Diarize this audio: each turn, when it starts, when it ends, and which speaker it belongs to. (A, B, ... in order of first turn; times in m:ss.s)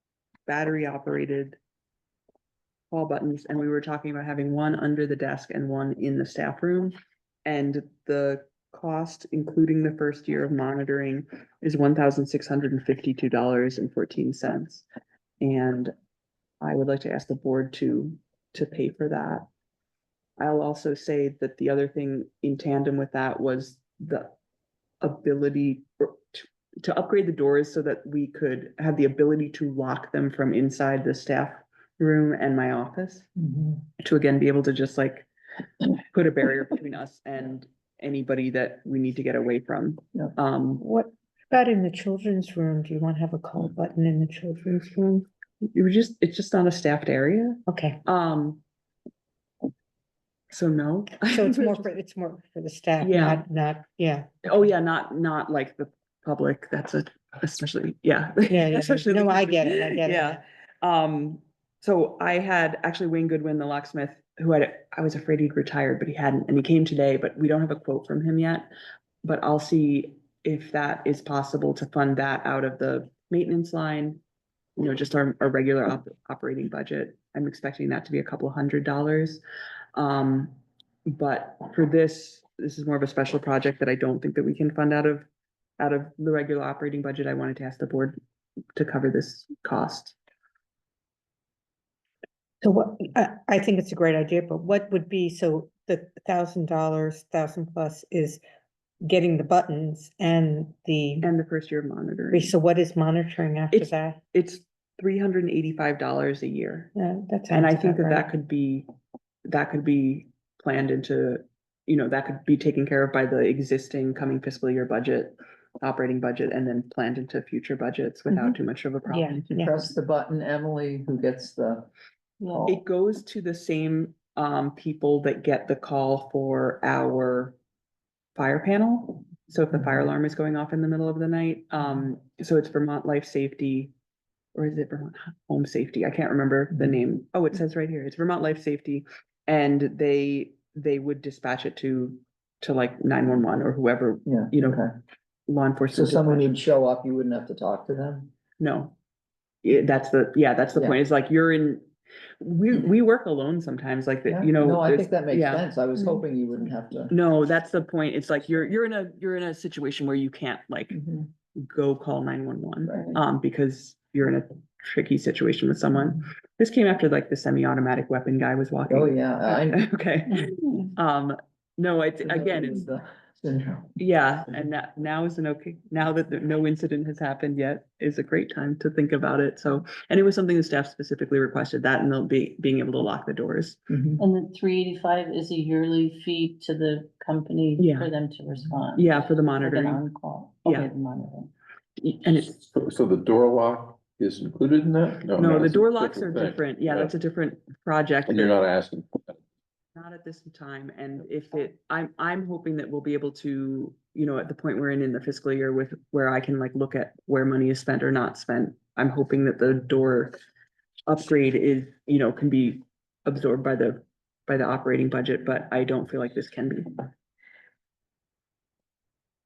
0:00.5-0:01.6 A
0:02.9-0:06.9 A
0:07.4-0:14.8 A
0:15.4-0:15.9 A
0:16.6-0:19.5 A
0:20.4-0:24.3 A
0:25.0-0:33.3 A
0:33.5-0:33.8 B
0:34.0-0:35.3 A
0:36.1-0:40.8 A
0:40.8-0:45.0 C
0:45.7-0:48.6 A
0:47.7-0:48.0 C
0:50.5-0:51.9 A
0:51.3-0:54.4 C
0:53.0-0:53.4 A
0:54.4-1:08.7 A
0:58.5-1:00.4 C
1:09.2-1:14.2 A
1:14.8-1:19.4 A
1:20.0-1:20.6 A
1:21.1-1:25.3 A
1:25.8-1:28.2 A
1:28.8-1:30.2 A
1:32.6-1:38.4 C
1:39.0-1:41.3 C
1:41.2-1:42.5 A
1:42.3-1:44.2 C
1:43.7-1:46.9 A
1:47.0-1:48.3 C
1:47.5-1:48.9 A
1:49.5-1:59.5 A
1:58.3-1:58.6 C
1:59.1-1:59.7 C
1:59.6-2:01.9 B
2:02.7-2:07.6 A
2:08.4-2:13.9 A
2:14.6-2:24.8 A
2:24.3-2:24.9 B
2:25.5-2:26.6 A
2:25.9-2:28.3 B
2:28.6-2:29.0 A
2:29.6-2:31.9 A
2:32.4-2:35.6 A
2:34.3-2:37.2 B
2:37.1-2:41.0 A
2:40.9-2:41.3 B
2:41.6-2:50.4 A
2:42.8-2:43.2 B
2:48.9-2:49.8 B
2:51.0-2:52.8 A
2:52.2-2:54.0 B
2:54.0-3:03.8 A
3:04.2-3:11.5 D
3:07.8-3:08.1 A
3:09.0-3:10.0 A
3:12.0-3:12.6 A
3:12.5-3:17.1 E
3:15.4-3:18.6 A
3:18.3-3:19.4 E
3:20.0-3:30.4 A
3:31.1-3:37.1 A